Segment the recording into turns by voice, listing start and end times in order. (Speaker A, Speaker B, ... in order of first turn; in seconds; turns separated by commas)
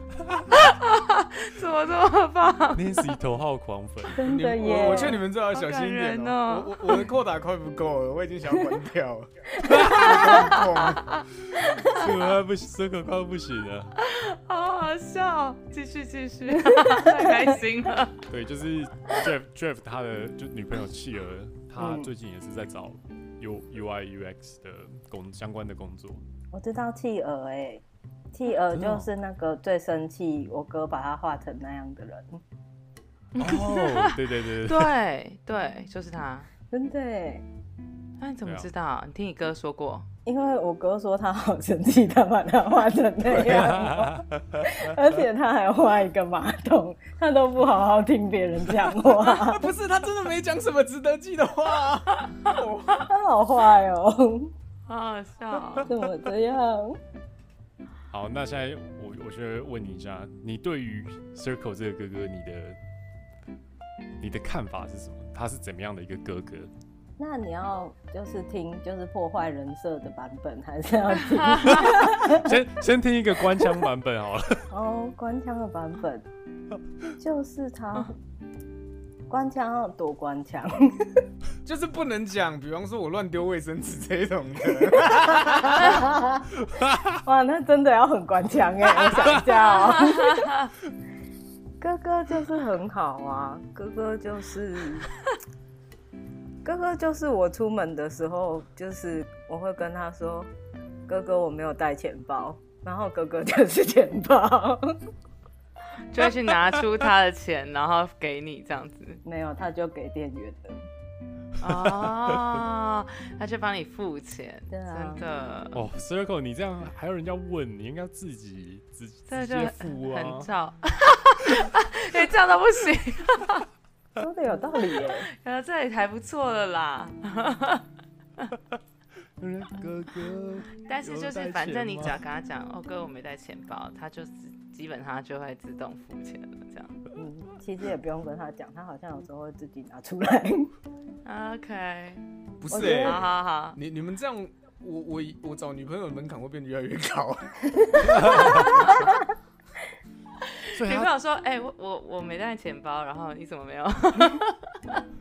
Speaker A: 0.5-3.1, Speaker B: 2.8-4.2, Speaker C: 4.0-5.2, Speaker D: 4.2-11.2, Speaker A: 4.7-7.1, Speaker B: 9.6-10.6, Speaker C: 9.7-10.5, Speaker B: 11.4-14.0, Speaker A: 14.0-18.2, Speaker C: 16.7-17.5, Speaker B: 18.3-26.2, Speaker C: 21.8-22.1, Speaker C: 26.5-32.4, Speaker B: 28.7-29.1, Speaker A: 33.3-36.5, Speaker B: 33.4-34.9, Speaker C: 36.7-37.5, Speaker A: 38.2-40.1, Speaker B: 38.4-38.7, Speaker C: 40.3-49.7, Speaker B: 43.3-44.8, Speaker D: 49.1-53.1, Speaker C: 53.1-54.5, Speaker A: 54.9-55.9, Speaker C: 55.9-57.0, Speaker B: 58.1-62.8, Speaker B: 64.2-66.7, Speaker C: 67.2-72.6, Speaker A: 71.6-71.9, Speaker B: 71.7-74.7, Speaker C: 74.7-76.3, Speaker C: 77.2-78.2, Speaker C: 79.3-81.3, Speaker D: 81.7-86.1, Speaker C: 84.8-86.5, Speaker B: 86.6-87.2, Speaker C: 87.2-90.5, Speaker C: 91.8-95.1, Speaker C: 96.6-100.5, Speaker C: 101.1-105.0, Speaker A: 106.1-109.2, Speaker C: 109.2-110.8, Speaker A: 111.6-115.8, Speaker B: 111.7-112.1, Speaker C: 114.7-115.2, Speaker B: 115.7-120.5, Speaker A: 119.3-123.7, Speaker C: 124.2-125.3, Speaker A: 125.1-127.9, Speaker B: 129.4-132.2, Speaker A: 130.8-137.0, Speaker C: 137.2-140.7, Speaker A: 141.2-143.8, Speaker D: 142.6-149.1, Speaker C: 142.7-143.3, Speaker C: 148.0-148.8, Speaker B: 148.1-148.8, Speaker A: 150.7-155.0, Speaker B: 150.7-151.1